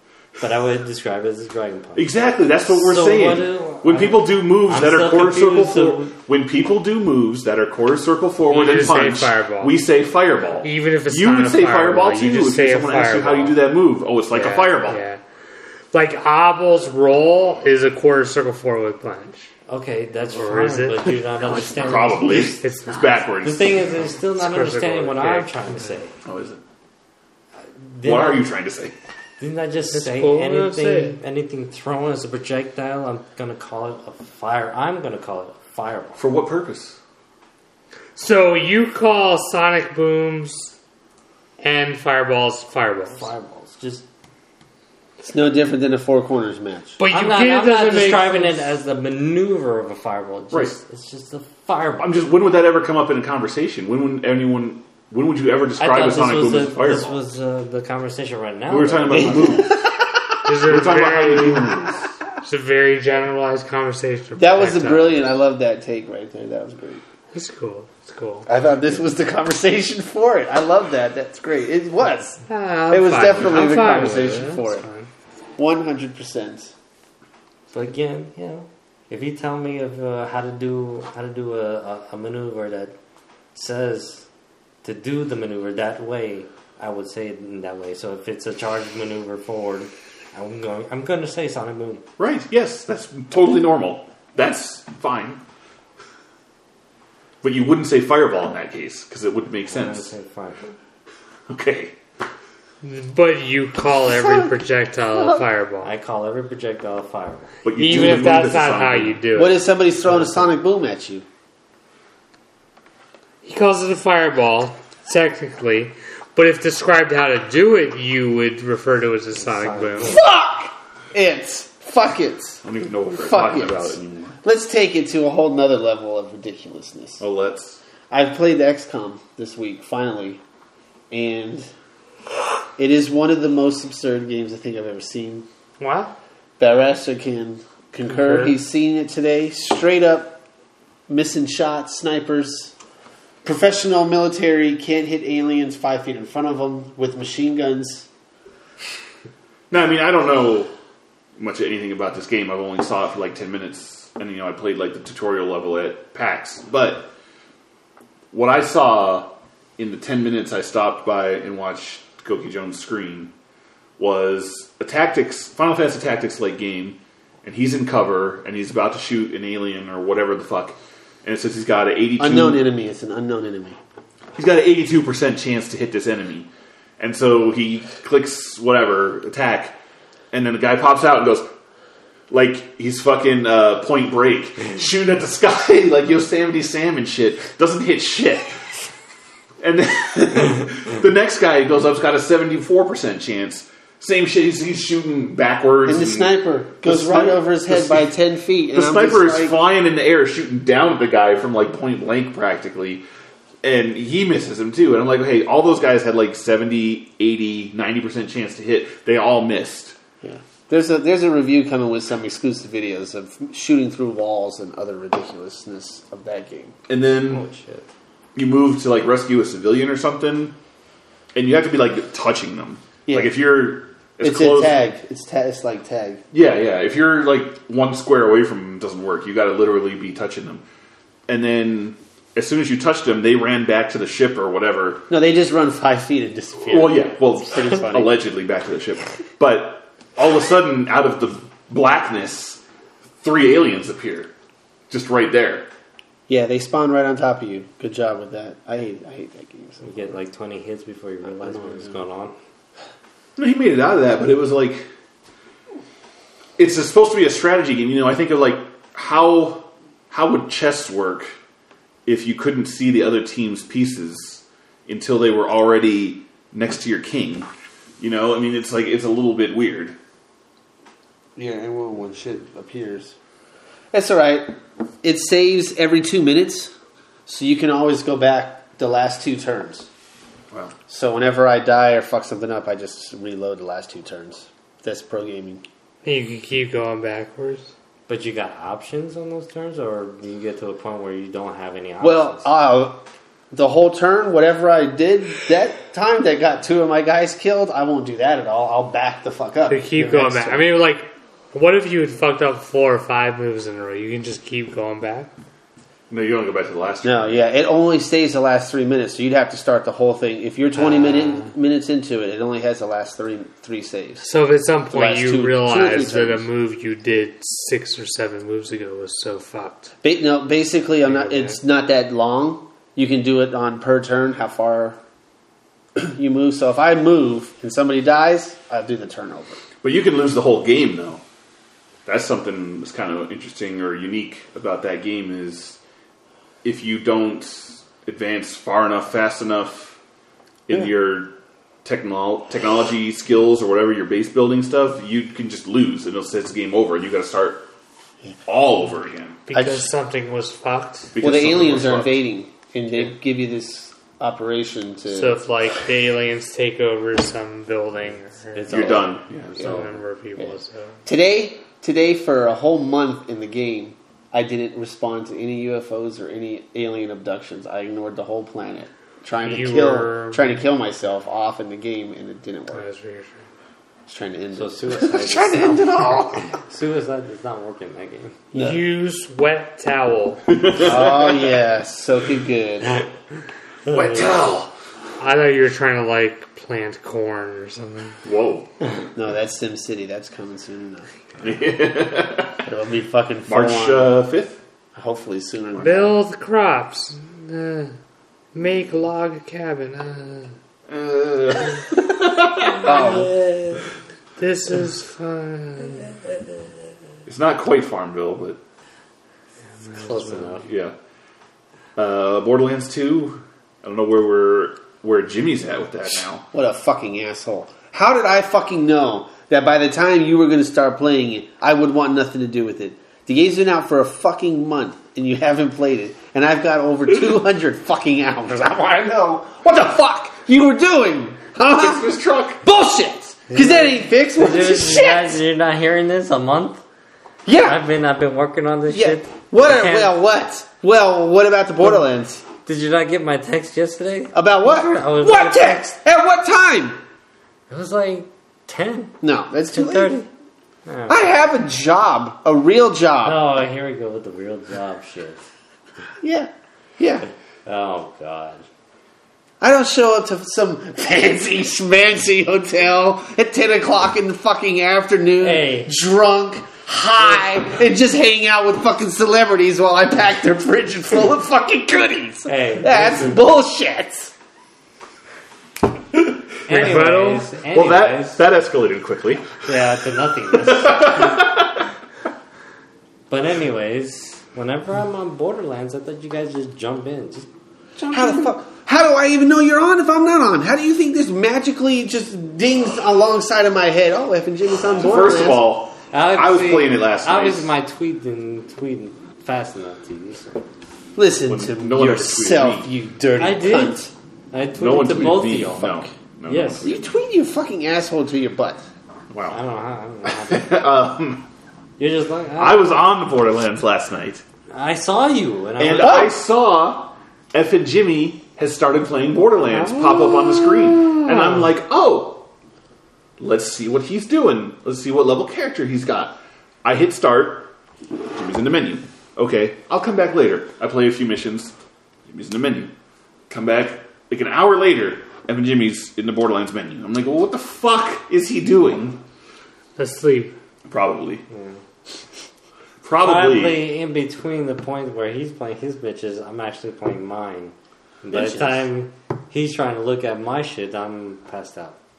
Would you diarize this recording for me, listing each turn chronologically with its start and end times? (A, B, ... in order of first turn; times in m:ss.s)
0:00.4-0:02.1 A
0:02.0-0:15.0 B
0:02.7-0:06.1 A
0:08.5-0:09.7 C
0:10.6-0:13.6 C
0:14.3-0:15.2 C
0:15.9-0:19.5 C
0:19.7-0:22.6 A
0:20.3-0:21.2 C
0:21.4-0:23.8 B
0:22.2-0:23.3 C
0:23.4-0:26.1 A
0:24.1-0:25.9 C
0:26.2-0:26.6 B
0:27.8-0:28.5 A
0:28.0-0:28.9 B
0:29.4-0:36.2 A
0:29.9-0:31.2 C
0:36.2-0:37.0 B
0:38.2-0:40.7 C
0:41.6-0:43.3 C
0:43.1-0:44.0 A
0:45.2-0:47.0 D
0:47.0-0:48.7 C
0:47.1-0:52.1 A
0:50.5-0:50.8 B
0:52.0-0:57.2 B
0:55.8-0:59.6 A
0:58.7-0:59.8 B
0:59.1-1:00.2 D
1:00.4-1:01.7 C
1:00.6-1:02.1 B
1:02.4-1:05.2 C
1:04.4-1:07.0 D
1:07.3-1:08.5 C
1:08.5-1:14.9 D
1:12.5-1:15.1 C
1:13.6-1:14.0 A
1:15.6-1:16.7 D
1:17.7-1:22.9 A
1:23.6-1:24.3 A
1:24.8-1:32.0 A
1:32.2-1:35.4 B
1:37.4-1:40.1 B
1:39.7-1:40.7 A
1:41.5-1:42.0 B
1:42.8-1:45.9 C
1:44.1-1:44.5 D
1:45.8-1:47.5 A
1:47.6-1:49.2 B
1:47.8-1:49.6 C
1:49.4-1:51.2 D
1:50.1-1:50.5 A
1:53.4-2:00.2 C
1:59.4-2:00.2 A
2:00.0-2:07.2 D
2:02.6-2:04.4 B
2:07.2-2:07.8 B
2:08.1-2:10.4 D
2:11.1-2:11.7 D
2:12.8-2:15.5 D
2:15.8-2:16.2 C
2:16.6-2:20.4 D
2:18.1-2:18.6 C
2:21.1-2:22.7 D
2:23.4-2:28.1 D
2:29.7-2:30.7 B
2:31.4-2:37.1 B
2:38.3-2:43.3 B
2:44.0-2:52.6 B
2:52.2-2:53.8 D
2:54.4-2:59.8 B
3:00.3-3:01.5 B
3:02.3-3:08.7 B
3:09.6-3:18.1 B
3:15.8-3:19.6 D
3:18.7-3:23.0 B
3:23.6-3:30.0 B
3:30.2-3:36.8 D
3:36.9-3:37.5 B
3:37.3-3:37.9 A
3:38.4-3:40.6 B
3:41.3-3:44.9 B
3:43.1-3:43.4 D
3:44.2-3:46.2 D
3:46.3-3:50.6 B
3:51.3-3:55.0 B
3:55.1-3:58.2 D
3:56.7-4:02.6 B
4:03.2-4:04.3 B
4:04.9-4:05.7 B
4:06.3-4:10.1 D
4:09.8-4:12.4 A
4:11.3-4:12.0 D
4:13.4-4:14.8 B
4:16.6-4:21.3 B
4:22.1-4:27.5 B
4:28.0-4:30.0 B
4:31.4-4:33.2 D
4:33.9-4:36.8 D
4:37.3-4:39.9 D
4:40.9-4:45.6 D
4:46.0-4:47.7 C
4:48.1-4:52.5 A
4:52.0-5:00.7 D
4:59.7-5:05.3 C
5:06.1-5:07.5 B
5:07.0-5:14.3 D
5:10.7-5:11.5 C
5:14.2-5:19.9 C
5:14.9-5:16.5 D
5:20.0-5:25.0 D
5:21.0-5:21.6 C
5:26.0-5:29.6 D
5:29.8-5:31.2 B
5:32.1-5:35.8 B
5:36.6-5:40.0 B
5:40.7-5:47.7 B
5:48.5-5:49.4 B
5:49.5-5:51.1 C
5:49.5-5:49.9 D
5:51.1-5:52.2 B
5:51.2-5:55.4 D
5:55.1-5:59.0 C
5:58.5-5:59.9 A
5:58.7-5:59.7 B
5:59.6-6:01.0 C
6:01.1-6:12.8 D
6:09.4-6:10.6 C
6:12.7-6:13.4 C
6:14.1-6:16.5 D
6:14.5-6:18.4 A
6:18.5-6:18.8 D
6:18.5-6:20.6 C
6:20.5-6:21.5 B
6:20.8-6:23.0 D
6:23.9-6:24.7 B
6:25.2-6:28.2 C
6:28.2-6:28.7 B
6:29.2-6:31.1 D
6:31.4-6:32.7 B
6:32.6-6:34.2 D
6:33.5-6:34.6 B
6:35.0-6:36.2 D
6:35.8-6:38.0 C
6:38.5-6:40.6 C
6:40.9-6:43.2 B
6:42.8-6:43.3 D
6:42.8-6:43.8 A
6:44.4-6:46.2 C
6:47.3-6:48.6 B
6:49.8-6:50.6 C
6:49.9-6:50.7 A
6:50.6-6:51.0 B
6:52.0-6:56.4 B
6:56.5-7:15.4 D
7:11.8-7:12.6 B
7:13.5-7:16.8 A
7:17.4-7:17.8 D
7:17.6-7:20.1 A
7:18.9-7:22.4 D
7:22.6-7:25.8 A
7:24.3-7:27.0 D
7:27.7-7:29.2 A
7:29.2-7:30.2 D
7:29.7-7:30.3 A
7:30.9-7:31.4 A
7:31.1-7:33.4 D
7:33.2-7:35.4 A
7:36.2-7:37.3 D
7:37.7-7:38.6 A
7:39.6-7:54.3 D
7:45.4-7:45.9 A
7:52.5-7:53.4 A
7:56.7-7:58.4 A
7:56.7-7:57.5 C
7:57.7-7:59.5 B
7:59.7-8:01.4 A
8:00.5-8:01.8 B
8:03.3-8:08.5 A
8:08.1-8:15.8 D
8:14.9-8:17.7 B
8:16.1-8:20.6 A
8:21.2-8:24.1 D
8:21.5-8:22.9 B
8:23.4-8:26.9 A
8:24.8-8:27.2 B
8:26.8-8:28.8 D
8:29.3-8:29.6 B
8:29.5-8:30.7 A
8:30.2-8:31.5 B
8:32.0-8:33.0 A
8:32.6-8:34.4 B
8:34.7-8:36.3 A
8:35.8-8:42.5 B
8:36.0-8:36.3 D
8:39.7-8:41.7 C
8:43.4-8:47.7 B
8:48.3-8:51.7 B
8:52.3-8:52.9 B
8:53.5-8:59.2 B
9:00.0-9:00.6 C
9:00.9-9:01.4 B
9:01.5-9:01.8 A
9:03.0-9:03.9 B
9:03.2-9:12.0 A